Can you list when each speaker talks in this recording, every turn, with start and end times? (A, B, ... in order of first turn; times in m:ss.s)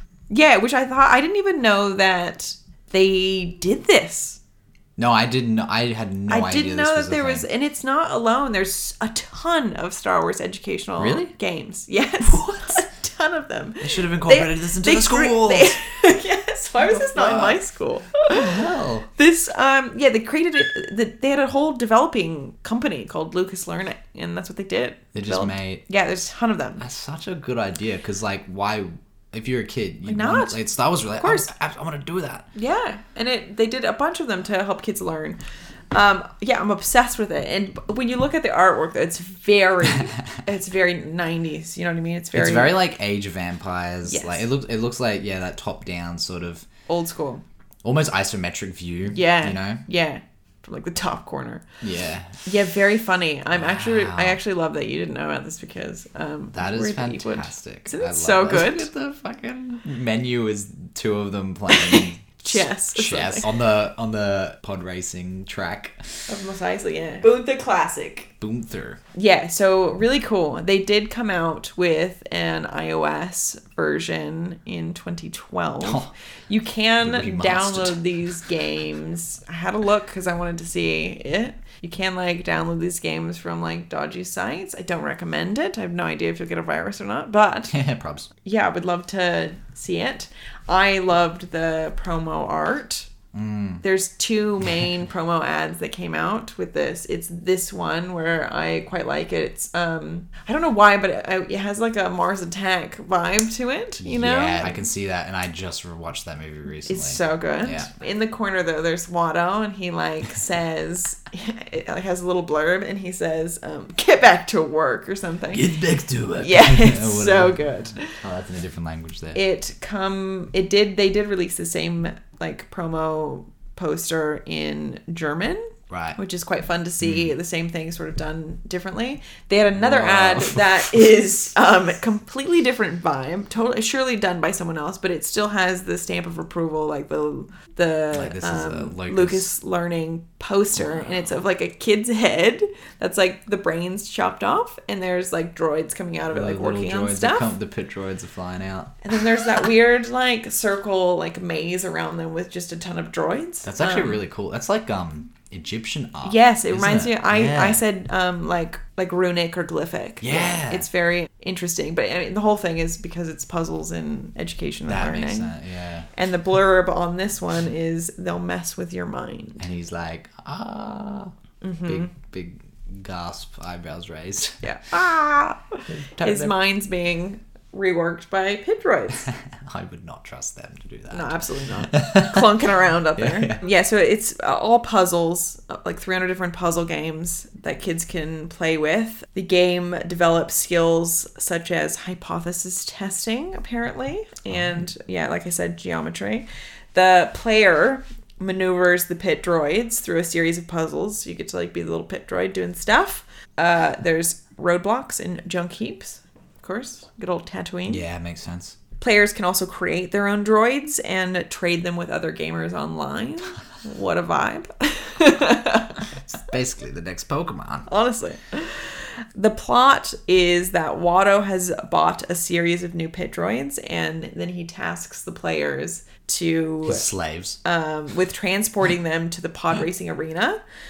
0:00.3-0:04.4 A
0:05.0-0:07.5 B
0:06.3-0:18.5 A
0:11.0-0:11.3 B
0:12.2-0:12.8 B
0:13.8-0:15.8 B
0:16.8-0:17.6 B
0:18.3-0:19.1 B
0:19.2-0:26.8 A
0:25.1-0:25.8 B
0:26.8-0:32.5 B
0:30.0-0:30.6 A
0:31.2-0:31.5 A
0:32.6-0:35.4 A
0:35.9-0:42.8 A
0:42.3-0:46.7 B
0:44.1-0:44.5 A
0:46.9-0:47.4 A
0:47.8-0:49.8 B
0:49.1-0:51.6 A
0:51.8-0:52.5 B
0:52.4-0:58.9 A
0:53.5-0:54.4 B
0:56.5-1:06.0 B
1:01.7-1:03.5 A
1:06.3-1:08.3 A
1:08.4-1:09.0 B
1:09.1-1:27.7 A
1:15.8-1:16.1 B
1:17.0-1:18.4 B
1:27.7-1:28.3 B
1:28.4-1:33.1 A
1:33.3-1:33.8 B
1:33.8-1:44.9 A
1:44.0-1:47.9 B
1:46.8-1:55.7 A
1:55.5-1:59.4 B
1:56.4-1:58.2 A
1:59.3-2:27.6 A
2:05.9-2:06.2 B
2:07.0-2:07.4 B
2:09.8-2:11.0 B
2:18.1-2:19.5 B
2:20.8-2:21.4 B
2:26.3-2:29.0 B
2:29.0-2:34.2 A
2:33.6-2:37.8 B
2:36.2-2:45.5 A
2:40.2-2:40.9 B
2:44.9-2:46.1 B
2:46.1-2:49.7 A
2:49.6-2:51.3 B
2:51.6-2:52.1 A
2:51.9-2:54.6 B
2:54.6-2:59.3 A
2:55.9-2:56.6 B
2:59.2-3:03.6 B
3:01.1-3:28.0 A
3:14.5-3:14.8 B
3:27.9-3:28.8 B
3:29.0-3:36.1 A
3:36.3-3:37.9 B
3:37.9-3:47.1 A
3:46.8-3:47.6 B
3:47.6-3:50.6 A